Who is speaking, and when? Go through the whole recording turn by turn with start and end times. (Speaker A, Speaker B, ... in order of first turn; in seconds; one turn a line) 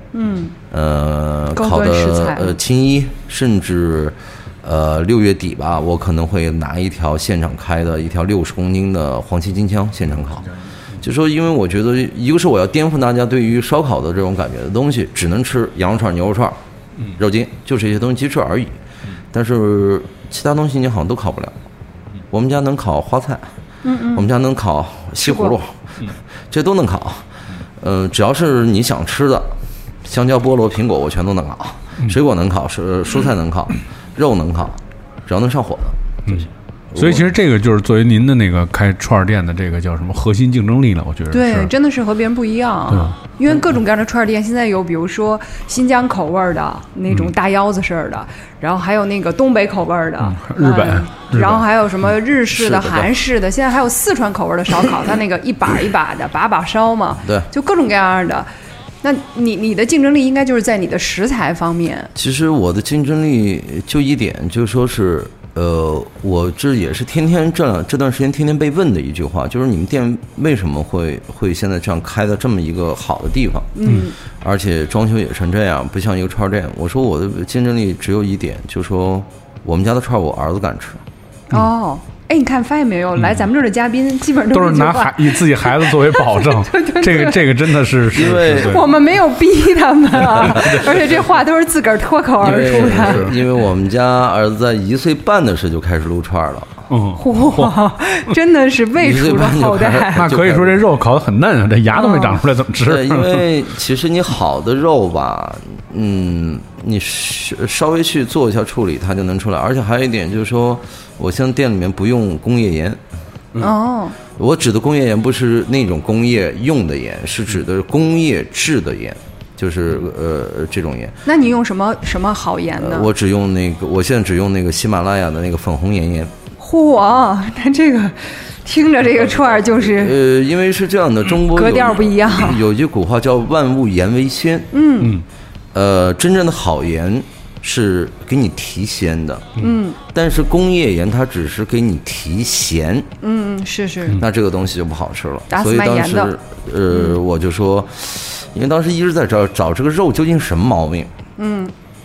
Speaker A: 0.1-0.6
Speaker B: 0.7-16.6
Speaker A: 1.6-2.6
Speaker B: 17.2-18.8
Speaker B: 19.3-21.6
Speaker B: 22.3-23.5
Speaker A: 23.8-24.3
Speaker B: 24.1-25.8
Speaker A: 25.2-25.6
Speaker B: 26.5-27.2
Speaker B: 27.8-29.5
Speaker B: 30.0-37.3
Speaker C: 36.3-41.7
Speaker A: 41.3-58.5
Speaker C: 50.2-51.6
Speaker B: 52.5-53.1
Speaker A: 59.0-62.1
Speaker B: 62.1-81.0
Speaker A: 73.8-74.2
Speaker A: 81.5-87.8
Speaker C: 84.5-88.9
Speaker B: 88.1-89.0
Speaker A: 88.5-93.2
Speaker C: 90.3-90.9
Speaker B: 90.4-90.8
Speaker B: 92.4-96.8
Speaker C: 92.8-93.3
Speaker C: 96.9-97.8
Speaker A: 97.2-100.3
Speaker B: 99.0-100.9
Speaker C: 100.2-103.5
Speaker A: 101.9-102.4
Speaker B: 102.8-113.0
Speaker A: 113.6-114.2
Speaker B: 114.4-121.2
Speaker A: 121.3-123.1
Speaker B: 122.8-126.3
Speaker A: 126.6-130.2
Speaker B: 129.7-134.7
Speaker A: 131.5-132.6
Speaker A: 134.7-135.2
Speaker B: 135.7-139.6
Speaker A: 139.6-140.0
Speaker B: 140.1-143.1
Speaker A: 143.2-144.2
Speaker B: 144.2-151.1
Speaker A: 145.5-146.3
Speaker A: 146.9-147.2
Speaker A: 151.4-151.7